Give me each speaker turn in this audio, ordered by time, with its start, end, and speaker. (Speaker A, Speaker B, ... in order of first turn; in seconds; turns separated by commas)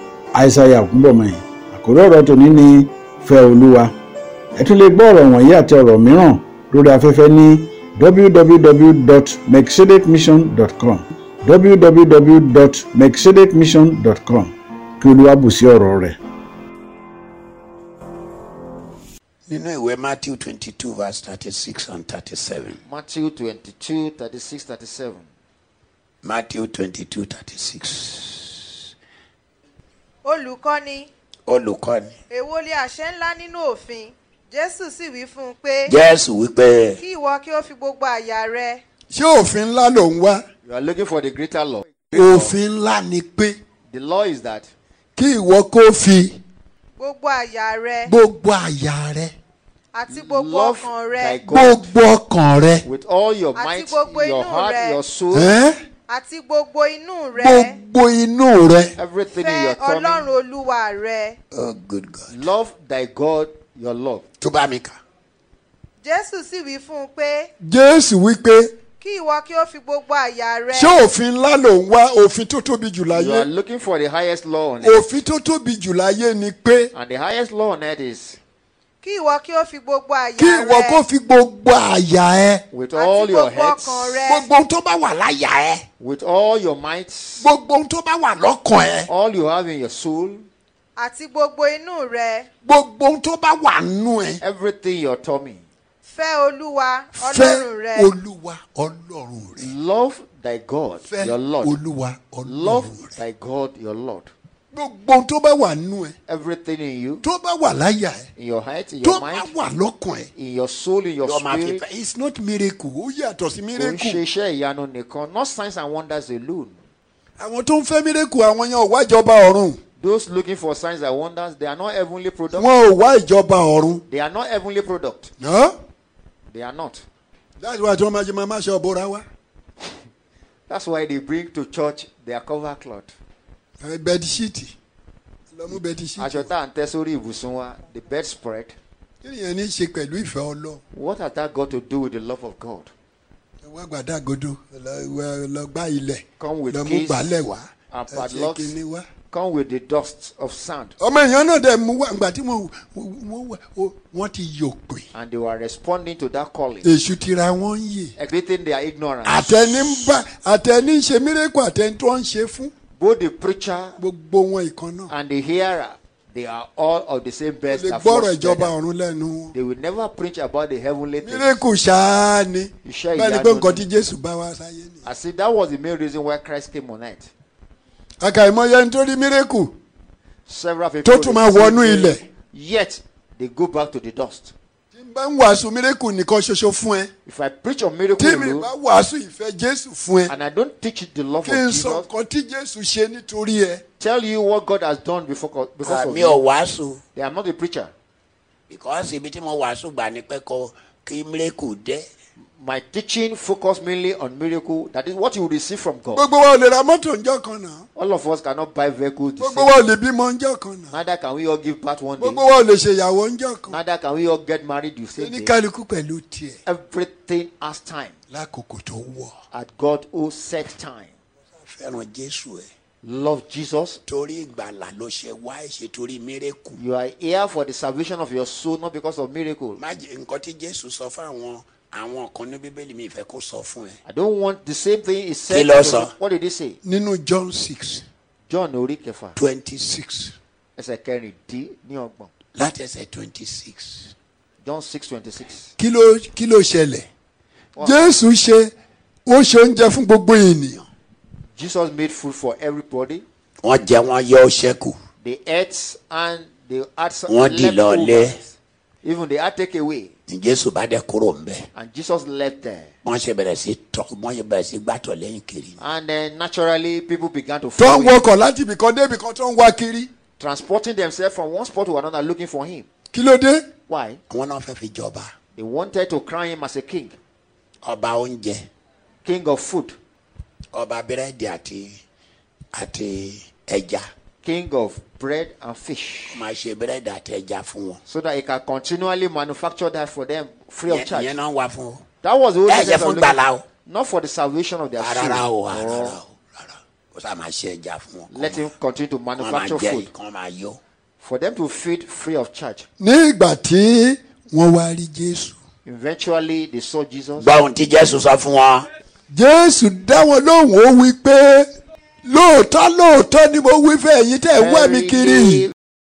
Speaker A: 0.3-3.9, Speaker A: 4.6-16.2, Speaker B: 19.5-22.8, Speaker C: 22.8-25.3, Speaker B: 26.2-28.8, Speaker D: 30.2-31.1, Speaker B: 31.5-32.1, Speaker D: 32.3-36.0, Speaker B: 35.9-37.0, Speaker D: 37.0-38.8, Speaker E: 39.1-40.4, Speaker C: 40.6-42.6, Speaker E: 42.1-43.6, Speaker C: 43.9-44.7, Speaker E: 45.2-46.4, Speaker D: 47.0-48.2, Speaker E: 48.1-49.3, Speaker D: 49.9-51.4, Speaker C: 50.1-51.9, Speaker E: 51.5-52.9, Speaker C: 52.8-55.6, Speaker D: 53.6-55.0, Speaker E: 55.3-55.8, Speaker D: 56.1-57.8, Speaker E: 57.3-59.0, Speaker C: 59.0-60.3, Speaker D: 59.3-61.4, Speaker B: 61.5-62.4, Speaker C: 62.3-64.2, Speaker B: 64.4-65.0, Speaker D: 66.0-67.5, Speaker E: 67.6-68.7, Speaker D: 69.0-71.0, Speaker E: 70.7-73.5, Speaker C: 73.1-75.2, Speaker E: 74.8-76.9, Speaker C: 76.9-78.4, Speaker D: 79.0-81.0, Speaker E: 80.4-82.6, Speaker C: 82.7-84.2, Speaker D: 82.9-84.5, Speaker B: 84.3-85.8, Speaker C: 86.0-87.5, Speaker B: 87.4-89.1, Speaker C: 89.1-90.5, Speaker D: 91.0-92.5, Speaker B: 92.7-94.4, Speaker C: 94.4-95.7, Speaker D: 96.0-98.1, Speaker E: 97.1-99.6, Speaker C: 99.6-101.8, Speaker E: 101.1-102.9, Speaker C: 102.4-104.3, Speaker E: 104.7-106.2, Speaker C: 106.3-107.2, Speaker E: 107.2-108.3, Speaker C: 108.4-109.5, Speaker E: 109.0-110.3, Speaker C: 110.3-111.8, Speaker B: 111.2-112.0, Speaker E: 111.9-114.2, Speaker C: 113.8-116.8, Speaker E: 117.4-119.8, Speaker C: 120.0-122.7, Speaker E: 122.5-124.0, Speaker C: 124.1-125.3, Speaker E: 125.4-125.8, Speaker C: 126.5-127.0, Speaker E: 127.6-129.2, Speaker C: 130.7-133.1, Speaker E: 133.8-134.7, Speaker E: 135.5-136.5, Speaker C: 135.7-138.8, Speaker E: 139.2-140.8, Speaker C: 140.9-142.9, Speaker E: 143.6-149.1, Speaker C: 146.4-147.3, Speaker C: 147.9-148.8, Speaker C: 149.3-150.9, Speaker E: 151.0-155.1, Speaker C: 155.1-156.9, Speaker E: 156.8-158.2, Speaker C: 158.2-159.6, Speaker B: 159.3-160.2, Speaker E: 159.3-162.7, Speaker C: 162.9-164.0, Speaker E: 164.0-165.1, Speaker C: 165.1-168.8, Speaker E: 167.7-169.5, Speaker C: 169.5-171.6, Speaker E: 171.2-175.0, Speaker C: 172.8-173.9, Speaker C: 175.0-177.3, Speaker E: 178.2-179.8, Speaker C: 180.5-184.5, Speaker E: 181.1-182.2, Speaker E: 184.9-187.1, Speaker C: 187.2-188.7, Speaker E: 188.2-190.3, Speaker C: 190.3-192.1, Speaker E: 191.4-193.8, Speaker C: 194.0-196.4, Speaker B: 195.8-197.0, Speaker C: 197.2-197.9, Speaker B: 198.7-202.1, Speaker C: 202.6-206.2, Speaker E: 206.1-207.8, Speaker C: 207.9-209.8, Speaker E: 209.4-210.9, Speaker C: 210.9-212.5, Speaker E: 212.2-213.8, Speaker C: 213.7-215.6, Speaker E: 215.2-216.6, Speaker C: 216.7-218.2, Speaker E: 218.3-219.3, Speaker C: 219.5-221.1, Speaker B: 221.6-222.7, Speaker C: 223.0-224.0, Speaker B: 224.1-226.8, Speaker C: 226.8-229.8, Speaker B: 229.8-234.0, Speaker C: 234.1-236.8, Speaker B: 235.5-236.1, Speaker E: 236.8-238.1, Speaker C: 238.5-239.4, Speaker B: 239.4-240.3, Speaker C: 240.8-242.3, Speaker B: 242.6-244.1, Speaker C: 244.6-245.7, Speaker E: 245.8-247.1, Speaker C: 247.8-248.2, Speaker E: 247.8-248.7, Speaker E: 249.3-250.8, Speaker C: 251.6-253.2, Speaker B: 253.6-255.0, Speaker C: 255.2-260.1, Speaker B: 257.3-258.4, Speaker B: 260.3-261.7, Speaker C: 261.7-262.9, Speaker B: 263.0-265.8, Speaker C: 265.8-268.2, Speaker E: 267.8-270.1, Speaker C: 270.4-272.9, Speaker E: 273.1-273.6, Speaker C: 273.9-274.2, Speaker B: 274.3-275.3, Speaker C: 275.6-277.1, Speaker B: 277.8-278.7, Speaker C: 279.2-279.9, Speaker B: 280.7-282.0, Speaker B: 282.7-284.1, Speaker C: 284.4-286.4, Speaker B: 286.3-288.0, Speaker C: 288.1-291.4, Speaker B: 290.9-292.0, Speaker C: 292.2-296.2, Speaker B: 292.7-293.6, Speaker B: 295.0-298.7, Speaker C: 298.3-300.1, Speaker B: 299.4-300.8, Speaker C: 301.2-302.9, Speaker E: 303.0-305.6, Speaker C: 305.9-307.6, Speaker B: 307.4-308.9, Speaker E: 309.3-311.7, Speaker E: 312.2-315.7, Speaker C: 314.6-315.7